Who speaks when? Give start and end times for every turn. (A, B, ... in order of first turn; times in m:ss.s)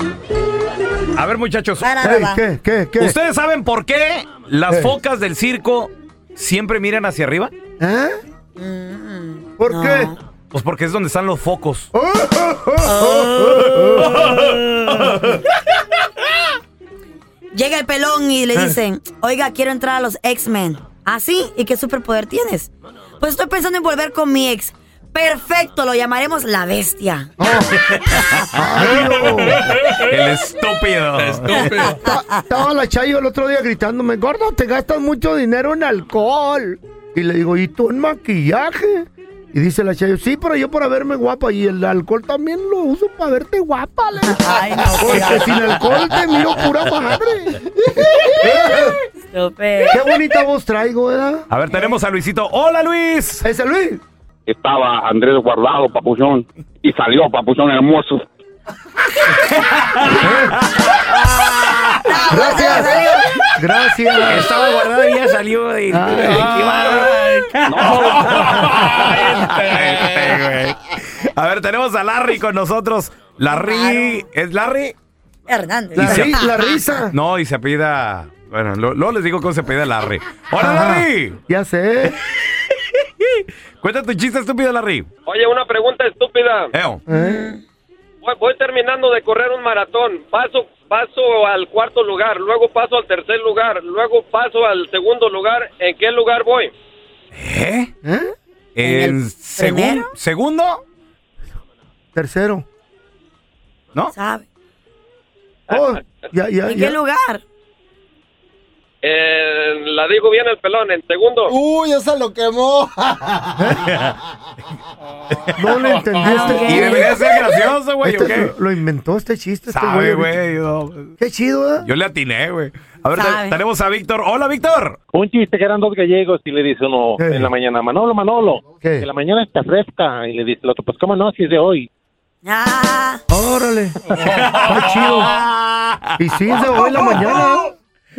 0:01.2-0:01.9 A
0:01.8-0:02.4 B
0:02.0-0:03.2 C
0:03.0-0:07.5 A
0:04.7-0:04.9 C
0:07.8-0:08.1 C
0:08.6-0:10.2 B
0:09.6-0:10.1 C
0:10.5-0:11.9 A
0:11.9-0:14.1 C
0:12.8-0:15.1 B
0:14.1-0:14.5 A
0:17.5-0:27.3 B
0:27.4-0:27.8 C
0:28.5-0:29.7 C
0:30.0-0:31.8 A
0:31.5-0:32.2 B
0:31.8-0:49.0 C
0:44.3-0:45.7 B
0:49.3-0:50.0 B
0:49.9-0:51.5 C
0:51.5-0:53.4 A
0:53.4-0:54.0 C
0:54.5-0:58.2 D
0:59.3-1:02.0 A
1:00.1-1:00.6 C
1:02.0-1:03.2 B
1:02.3-1:04.5 C
1:04.3-1:15.0 A
1:05.9-1:06.6 C
1:06.6-1:07.0 E
1:07.7-1:08.8 D
1:09.0-1:10.2 E
1:13.5-1:14.2 B
1:15.5-1:16.4 B
1:16.0-1:17.2 C
1:16.0-1:16.4 A
1:17.1-1:21.4 A
1:20.6-1:22.2 C
1:23.2-1:25.1 A
1:25.3-1:26.7 F
1:26.7-1:27.0 A
1:27.1-1:27.5 C
1:27.1-1:27.6 B
1:28.2-1:36.7 F
1:37.3-1:37.9 A
1:38.0-1:38.3 C
1:38.8-1:40.8 A
1:38.8-1:40.1 B
1:42.2-1:42.7 C
1:44.1-1:44.4 B
1:45.7-1:47.0 C
1:46.7-1:47.4 B
1:49.0-1:51.6 F
1:51.8-1:53.1 E
1:53.6-1:53.9 C
1:53.8-1:54.2 A
1:55.6-1:57.1 C
1:56.2-1:57.1 B
1:56.6-1:58.5 A
1:58.0-2:00.4 C
1:59.7-2:01.1 A
2:01.2-2:01.9 C
2:01.8-2:05.0 A
2:03.2-2:03.6 B
2:05.1-2:11.9 G
2:07.2-2:07.5 C
2:08.8-2:09.1 C
2:12.4-2:13.2 B
2:13.3-2:14.0 C
2:14.3-2:17.4 A
2:14.6-2:15.3 C
2:16.2-2:17.7 C